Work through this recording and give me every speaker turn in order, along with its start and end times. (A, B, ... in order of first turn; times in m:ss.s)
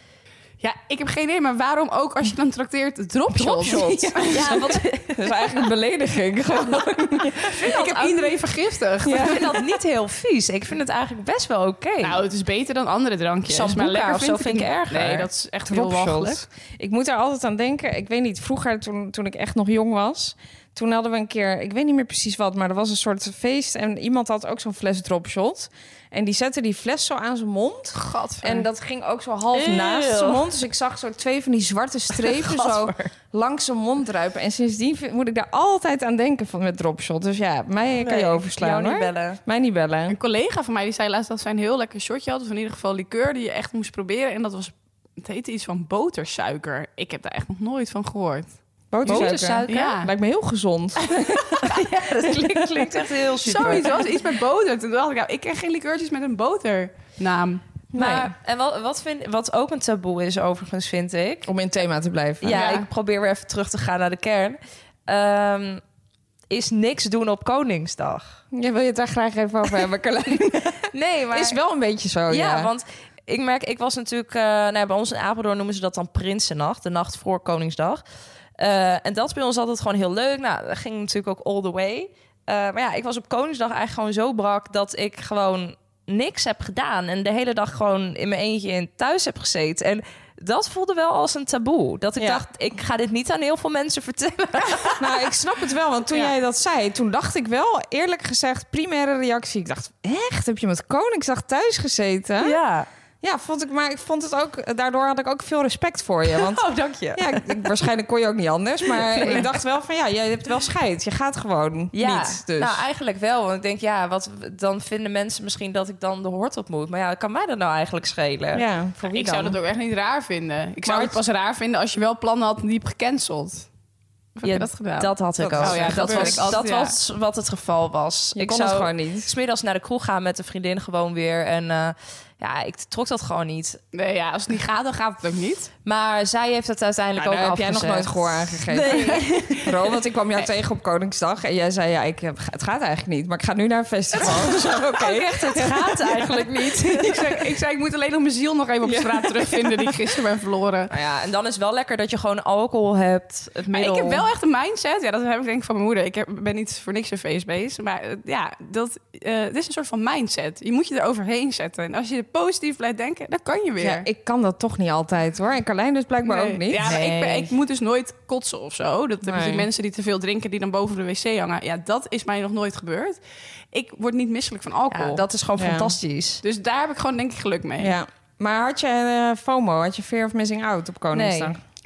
0:00.6-0:04.6 A
0:03.3-0:07.6 B
0:03.7-0:05.4 C
0:07.5-0:08.3 C
0:07.5-0:09.7 A
0:09.0-0:09.4 B
0:09.2-0:12.2 C
0:12.0-0:16.4 A
0:13.5-0:15.2 C
0:15.7-0:40.2 B
0:27.9-0:28.7 A
0:29.5-0:30.4 C
0:32.1-0:33.1 C
0:38.0-0:39.4 C
0:40.1-0:48.6 A
0:48.9-0:51.8 B
0:49.0-0:49.9 C
0:49.1-0:50.1 A
0:51.6-0:54.0 C
0:53.4-0:57.6 A
0:53.5-0:53.9 B
0:57.9-0:58.3 B
0:57.9-1:01.5 C
1:01.4-1:02.8 B
1:02.4-1:05.8 C
1:02.5-1:02.9 A
1:06.5-1:08.4 C
1:08.5-1:10.8 B
1:10.9-1:11.6 C
1:11.3-1:12.7 B
1:12.3-1:18.0 C
1:18.6-1:35.0 C
1:35.0-1:42.6 B
1:42.4-1:42.9 C
1:43.2-1:52.8 B
1:46.3-1:47.7 C
1:49.0-1:49.4 C
1:51.9-1:58.6 C
1:58.6-1:59.6 B
1:59.1-2:03.7 A
2:00.8-2:01.2 B
2:04.4-2:07.0 A
2:04.4-2:13.8 C
2:05.5-2:06.6 B
2:08.4-2:09.3 B
2:13.9-2:15.7 A
2:15.8-2:19.7 C
2:17.2-2:26.4 B
2:18.9-2:19.2 A
2:24.2-2:27.2 C
2:26.9-2:30.9 A
2:28.8-2:30.0 B
2:30.9-2:34.2 C
2:33.7-2:44.1 A
2:43.8-2:47.0 B
2:46.2-2:53.2 A
2:46.8-2:47.5 C
2:49.2-2:49.7 B
2:53.7-2:55.2 A
2:54.9-2:56.4 C
2:55.6-2:56.0 B
2:56.4-2:57.9 A
2:57.8-3:01.6 B
3:01.1-3:01.5 C